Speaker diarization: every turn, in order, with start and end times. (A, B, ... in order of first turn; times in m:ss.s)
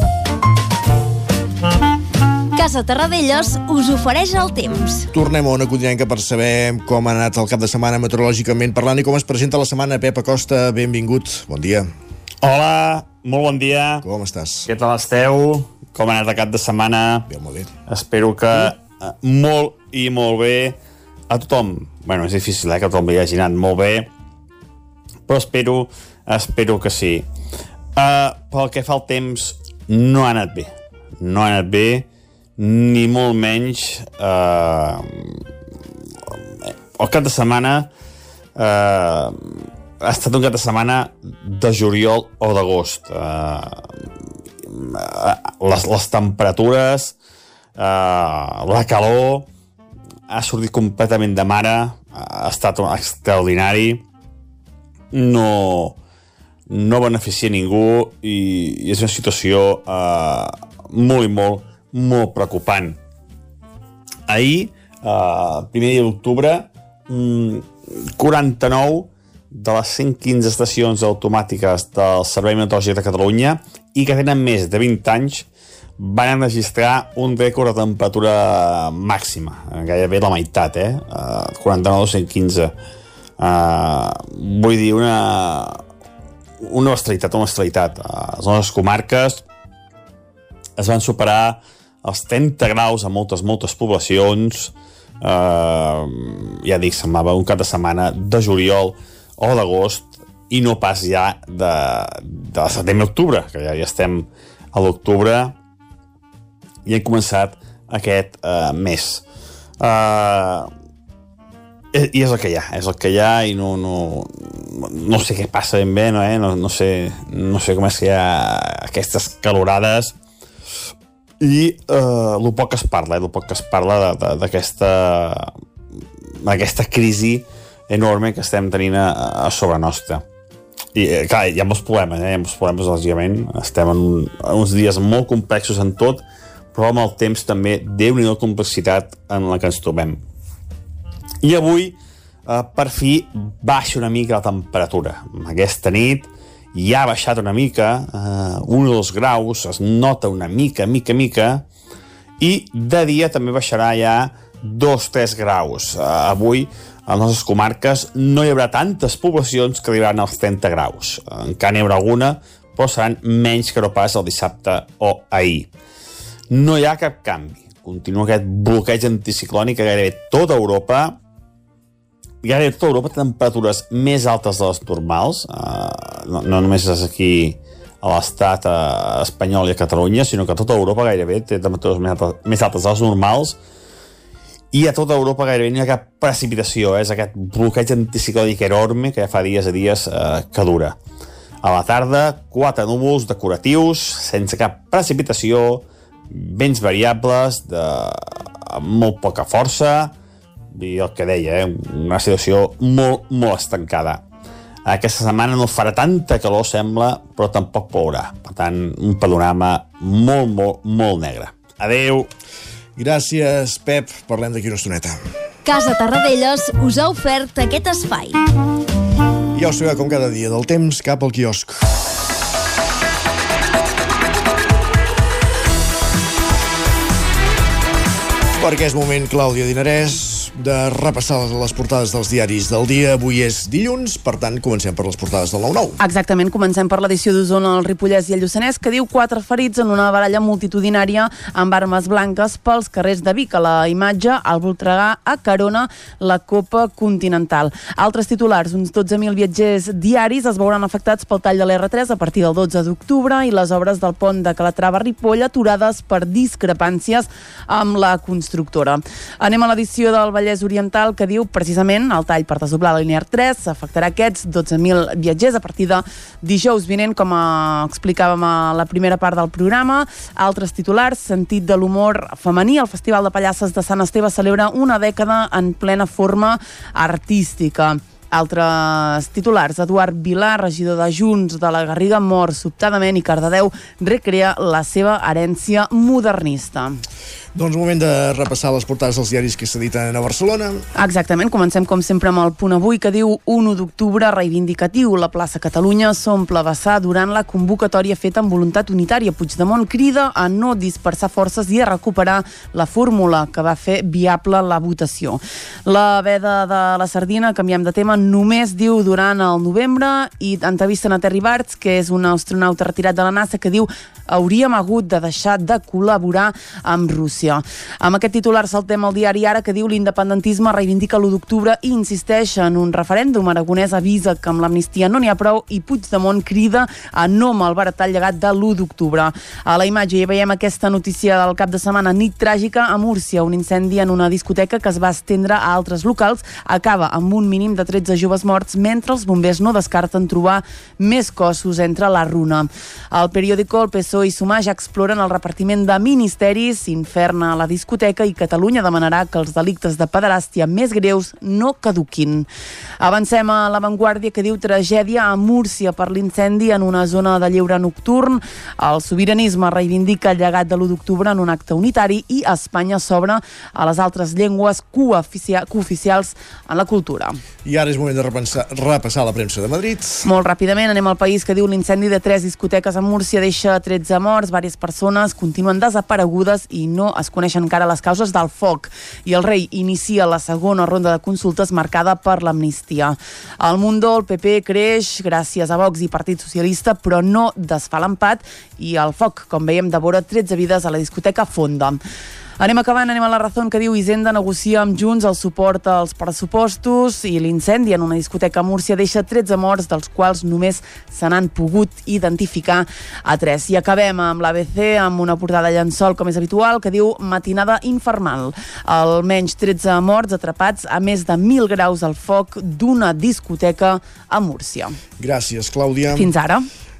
0:02.5-0:05.0 A
0:05.1-0:11.9 B
0:12.4-0:14.0 C
0:14.0-0:14.7 B
0:14.7-0:17.2 C
0:17.3-0:17.7 B
0:17.9-0:20.8 C
0:21.3-0:24.1 C
0:25.3-0:27.3 C
0:28.0-0:32.0 C
0:32.6-0:35.4 C
0:37.0-0:37.9 C
0:38.6-0:43.9 C
0:44.6-0:47.1 C
0:47.8-0:49.5 C
0:50.3-0:54.0 C
0:55.1-0:56.0 C
0:56.7-1:03.0 C
1:04.3-1:15.4 C
1:16.0-1:22.7 C
1:23.4-1:25.8 C
1:26.6-1:29.4 C
1:30.8-1:45.5 C
1:46.8-1:49.2 C
1:49.8-1:50.7 C
1:51.9-2:00.1 C
2:01.4-2:05.5 C
2:06.4-2:10.2 C
2:10.9-2:16.2 C
2:16.7-2:20.2 C
2:21.4-2:31.6 C
2:32.4-2:45.7 C
2:46.5-2:51.2 C
2:52.4-3:03.6 C
3:04.7-3:11.0 C
3:11.6-3:20.1 C
3:20.7-3:24.2 C
3:24.8-3:32.3 C
3:33.0-3:35.2 B
3:35.6-3:38.4 A
3:39.5-3:41.8 B
3:48.5-3:56.0 B
3:56.0-4:47.0 D
4:47.5-4:50.8 B
4:51.0-5:52.4 D
5:53.0-6:07.4 D
6:07.6-6:10.2 B
6:10.2-6:32.0 D
6:32.6-6:55.0 D
6:55.2-6:56.3 B
6:56.1-6:56.6 D